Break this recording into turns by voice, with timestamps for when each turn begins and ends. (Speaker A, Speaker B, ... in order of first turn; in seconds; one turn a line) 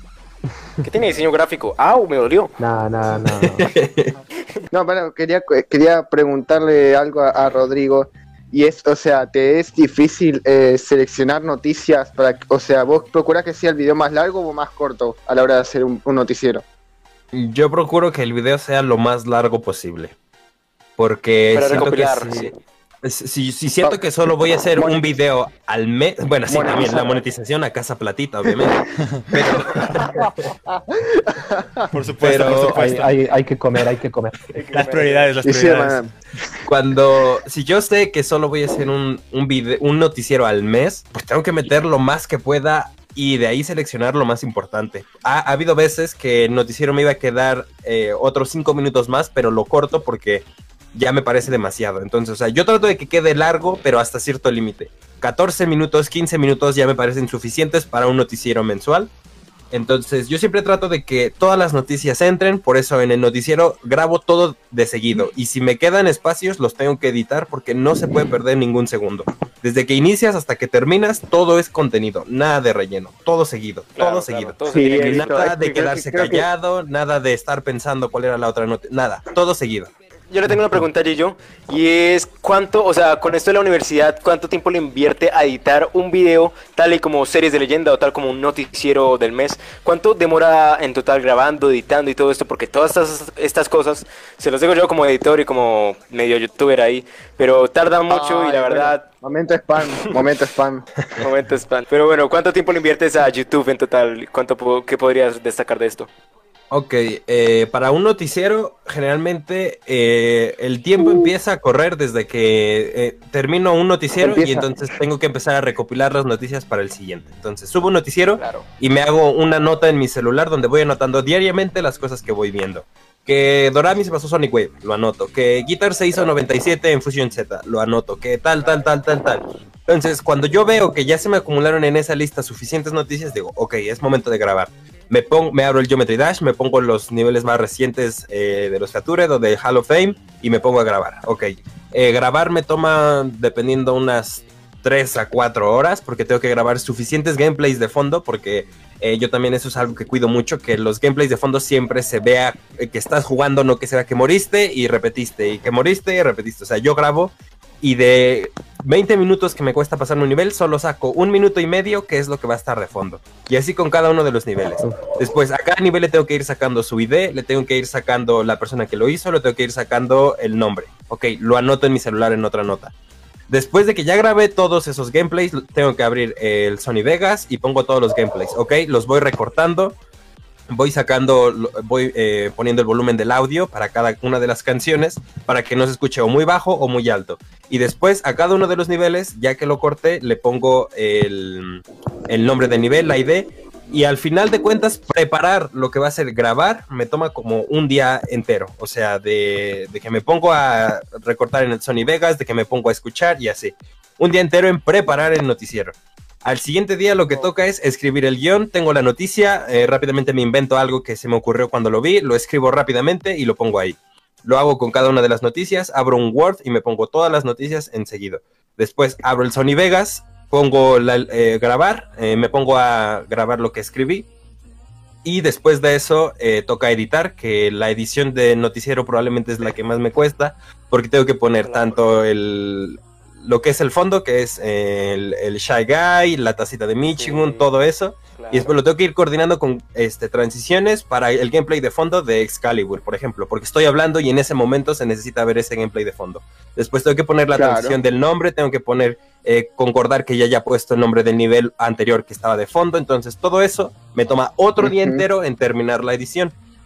Speaker A: 0.8-2.5
Speaker B: 2.6-3.7
Speaker C: 3.4-4.1
Speaker D: 4.7-16.6
Speaker C: 17.3-20.1
Speaker C: 21.0-22.5
Speaker A: 21.5-22.6
Speaker C: 23.0-30.3
Speaker D: 24.8-25.0
Speaker D: 26.5-27.2
Speaker D: 30.0-31.9
Speaker E: 31.9-33.2
Speaker C: 32.2-32.8
Speaker B: 32.4-34.4
Speaker A: 34.5-35.3
Speaker E: 34.7-36.1
Speaker D: 35.4-36.1
Speaker C: 36.7-59.1
Speaker C: 59.7-79.9
Speaker A: 74.0-75.5
Speaker D: 74.7-76.5
Speaker A: 80.3-99.1
Speaker D: 98.1-100.9
Speaker A: 101.2-106.1
Speaker C: 106.7-172.9
Speaker D: 111.0-111.3
Speaker D: 114.2-114.7
Speaker A: 118.3-118.7
Speaker C: 173.5-180.0
Speaker C: 180.7-224.3
Speaker A: 207.3-207.5
Speaker C: 225.2-256.6
Speaker A: 231.6-232.1
Speaker A: 237.2-237.7
Speaker A: 238.3-238.8
Speaker D: 247.5-248.0
Speaker D: 254.8-255.2